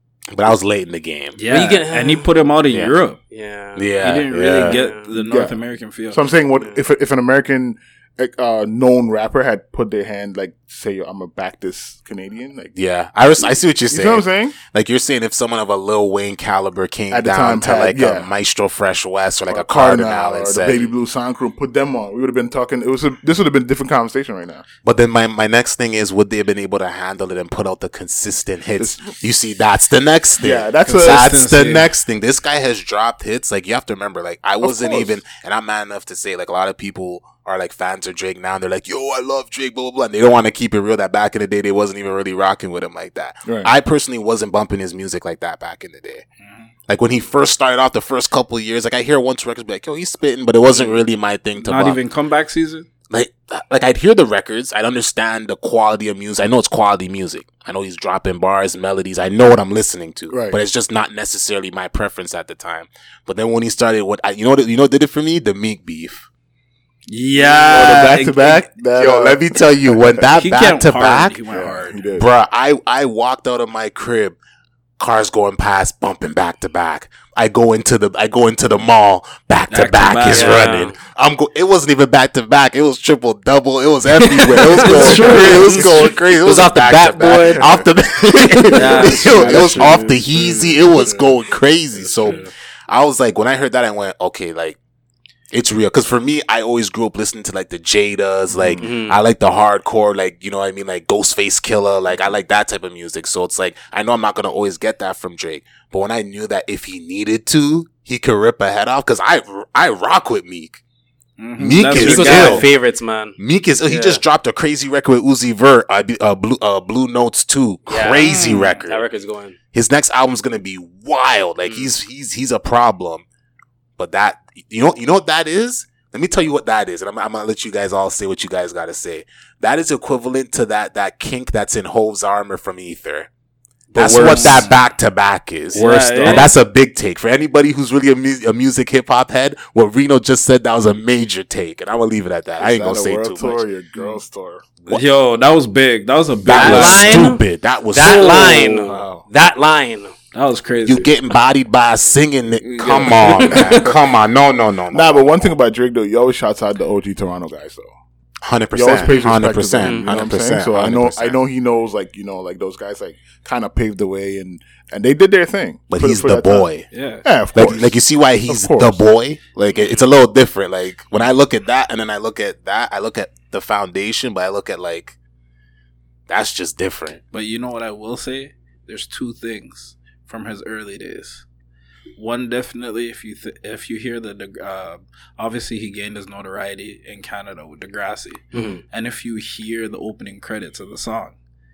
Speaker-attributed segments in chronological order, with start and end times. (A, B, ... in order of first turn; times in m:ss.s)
0:00.3-0:01.4 A
0:01.4-0:03.2 B
0:01.5-0:02.3 C
0:02.7-0:02.9 A
0:03.3-0:03.9 C
0:03.8-0:04.8 A
0:04.0-0:06.3 B
0:04.6-0:05.1 C
0:05.1-0:05.6 D
0:06.1-0:12.7 D
0:12.8-0:20.9 A
0:13.5-0:14.6 D
0:17.1-0:18.3 D
0:19.5-0:24.6 D
0:24.8-0:46.2 A
0:28.8-0:29.2 D
0:30.4-0:31.3 D
0:30.8-0:31.9 B
0:34.6-0:35.2 D
0:43.4-0:43.7 D
0:46.4-0:46.7 B
0:46.9-0:52.0 A
0:50.7-0:51.0 B
0:51.6-0:52.9 B
0:53.1-1:06.3 A
1:00.3-1:00.6 D
1:07.1-1:08.7 B
1:07.4-1:10.2 D
1:08.9-1:11.4 A
1:10.4-1:12.0 B
1:11.5-1:12.3 D
1:12.1-1:14.4 A
1:15.0-1:34.8 A
1:19.7-1:20.9 B
1:20.3-1:21.0 C
1:24.2-1:29.7 C
1:24.7-1:26.1 B
1:24.9-1:25.3 D
1:27.5-1:27.8 D
1:28.7-1:30.1 B
1:29.0-1:31.3 D
1:32.1-1:32.5 B
1:35.5-1:50.8 A
1:38.5-1:38.8 D
1:38.8-1:39.2 C
1:51.4-1:52.7 B
1:51.6-1:52.7 A
1:51.9-1:54.2 C
1:53.4-1:59.0 A
1:57.9-1:59.6 C
1:58.2-1:58.8 B
1:59.7-2:03.2 A
2:04.0-2:13.3 A
2:14.0-2:23.6 A
2:14.0-2:14.6 C
2:14.0-2:14.8 B
2:15.7-2:16.5 B
2:15.8-2:16.5 C
2:22.6-2:24.7 D
2:24.9-2:27.3 B
2:26.4-2:28.9 A
2:26.5-2:30.1 C
2:28.8-2:29.2 D
2:30.3-2:31.1 B
2:30.8-2:35.5 A
2:32.6-2:33.6 B
2:33.2-2:33.9 C
2:34.9-2:37.8 D
2:38.4-2:41.4 A
2:38.7-2:46.7 D
2:39.8-2:40.1 C
2:45.9-2:46.9 A
2:46.9-2:47.3 B
2:47.2-2:49.0 D
2:47.5-2:55.2 A
2:56.3-2:57.2 A
2:57.3-3:01.4 B
3:02.2-3:11.4 B
3:08.5-3:08.8 C